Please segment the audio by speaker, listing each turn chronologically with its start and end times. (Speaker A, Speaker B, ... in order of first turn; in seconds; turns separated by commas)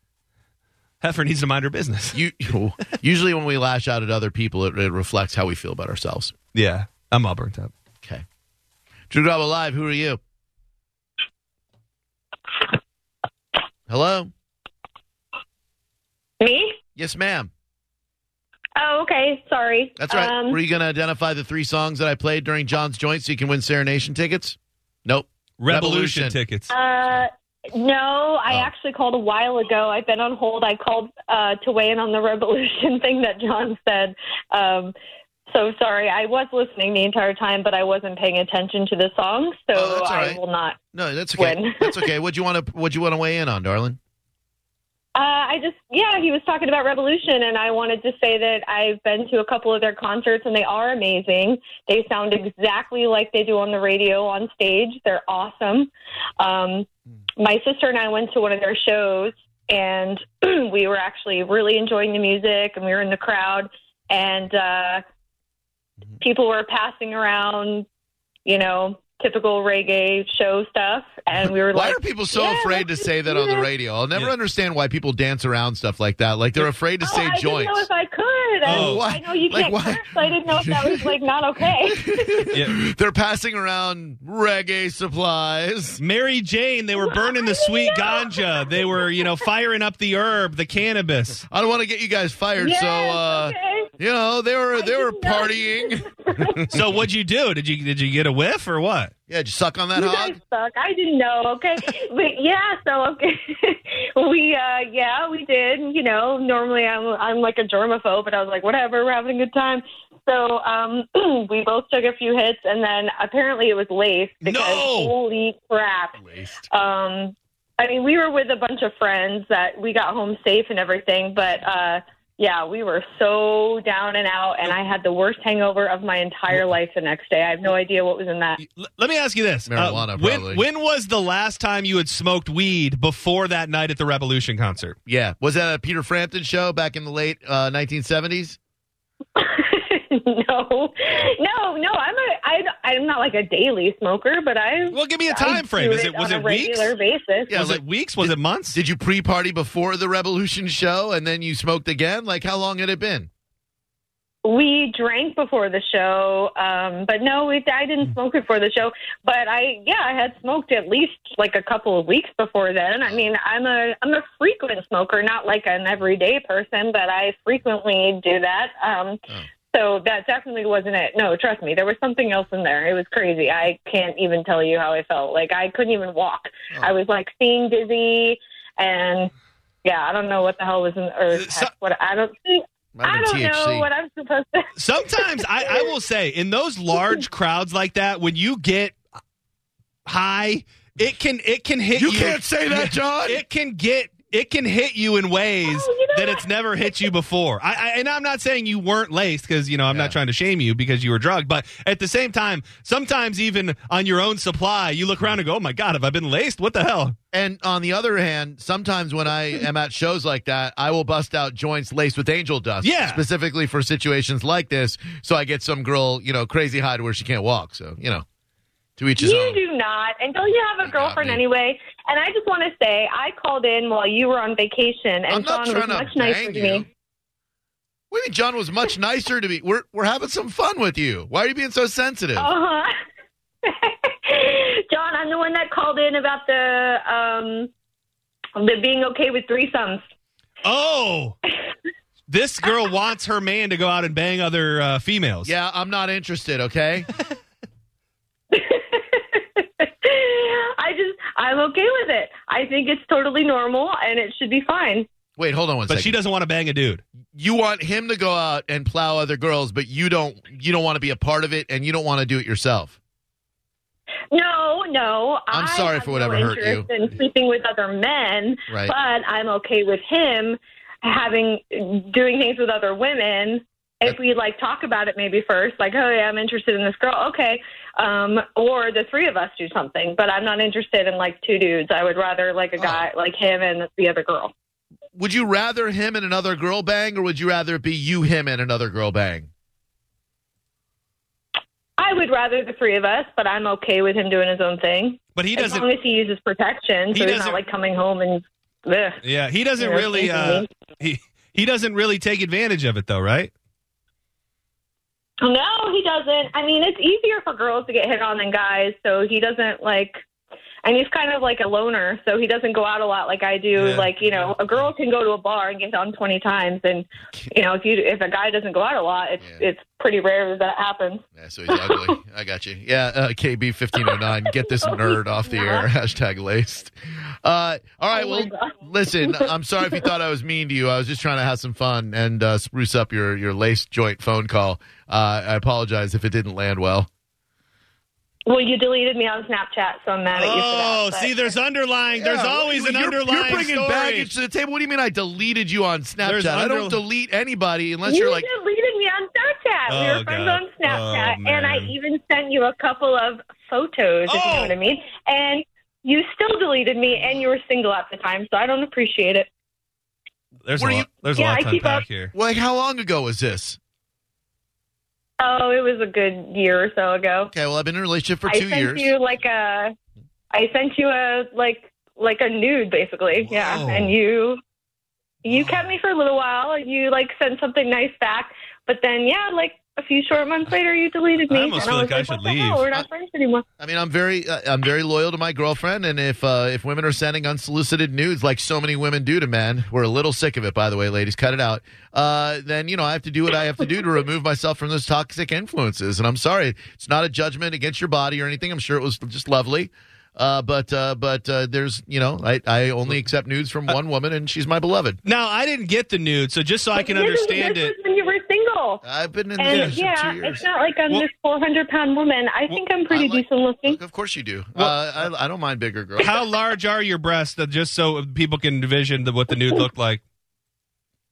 Speaker A: 1.0-2.2, Speaker B: 2.1-6.3, Speaker A: 6.5-7.7, Speaker B: 9.1-10.2, Speaker B: 13.9-14.3, Speaker C: 16.4-16.8, Speaker B: 16.9-17.5, Speaker C: 18.8-20.6, Speaker B: 20.0-26.4, Speaker A: 25.6-26.7, Speaker C: 26.7-34.9, Speaker C: 35.5-40.8, Speaker B: 39.7-40.4, Speaker B: 40.9-44.0, Speaker C: 41.4-42.1, Speaker C: 45.1-56.9, Speaker C: 57.4-65.0, Speaker C: 66.2-67.9, Speaker C: 68.5-73.7, Speaker B: 71.7-77.9, Speaker C: 77.0-82.5, Speaker B: 78.6-81.1, Speaker A: 78.7-79.0, Speaker B: 81.8-86.0, Speaker A: 82.5-82.8, Speaker A: 86.0-91.5, Speaker C: 87.0-89.3, Speaker B: 91.5-96.8, Speaker C: 92.6-93.9, Speaker C: 94.8-96.7, Speaker A: 96.7-99.1, Speaker B: 99.3-100.4, Speaker C: 100.0-116.2, Speaker A: 114.4-115.1, Speaker B: 116.2-116.7, Speaker C: 116.7-128.6, Speaker A: 128.6-134.9, Speaker B: 129.7-130.6, Speaker B: 135.1-138.6, Speaker C: 139.4-147.5, Speaker A: 144.9-146.9, Speaker A: 147.5-148.8, Speaker B: 147.5-153.3, Speaker C: 154.4-179.3, Speaker B: 163.0-163.3, Speaker C: 179.8-185.8, Speaker A: 181.3-181.7, Speaker B: 182.9-183.9, Speaker A: 184.8-189.0, Speaker A: 190.1-207.2, Speaker B: 191.9-193.4, Speaker C: 195.7-196.4, Speaker B: 207.3-218.2, Speaker A: 212.8-213.2, Speaker B: 219.0-219.6, Speaker C: 219.2-226.9, Speaker B: 220.8-221.4, Speaker B: 225.3-226.9, Speaker B: 228.1-232.5, Speaker C: 232.4-232.9, Speaker C: 233.6-237.7, Speaker C: 238.6-240.0, Speaker A: 240.6-241.4, Speaker A: 242.3-245.5, Speaker B: 245.4-247.1, Speaker C: 248.5-255.1, Speaker B: 255.4-256.1, Speaker A: 255.9-257.0, Speaker B: 257.4-263.0, Speaker C: 264.3-284.5, Speaker B: 265.5-266.9, Speaker B: 268.7-268.9, Speaker B: 285.1-289.5, Speaker C: 292.0-299.2, Speaker A: 295.4-295.9, Speaker A: 297.1-297.6, Speaker A: 299.2-303.5, Speaker C: 299.8-300.7, Speaker C: 305.4-310.2, Speaker C: 310.8-322.1, Speaker A: 313.7-314.5, Speaker B: 321.4-337.1, Speaker C: 324.0-325.9, Speaker C: 328.1-329.5, Speaker C: 338.5-341.4, Speaker A: 340.4-344.3, Speaker B: 342.2-348.5, Speaker A: 346.2-347.0, Speaker C: 348.1-359.5, Speaker A: 349.9-351.9, Speaker A: 354.2-354.8, Speaker A: 360.6-362.3, Speaker B: 360.8-361.1, Speaker C: 361.4-362.0, Speaker B: 362.3-363.8, Speaker C: 365.4-367.5, Speaker B: 367.5-369.1, Speaker C: 368.5-369.9, Speaker C: 370.5-374.6, Speaker A: 373.4-374.1, Speaker C: 375.4-383.6, Speaker A: 381.5-382.9, Speaker B: 383.8-405.2, Speaker A: 405.2-407.9, Speaker C: 406.9-409.0, Speaker B: 409.0-410.6, Speaker C: 409.6-414.0, Speaker A: 409.7-410.0, Speaker B: 413.1-416.3, Speaker A: 416.2-420.2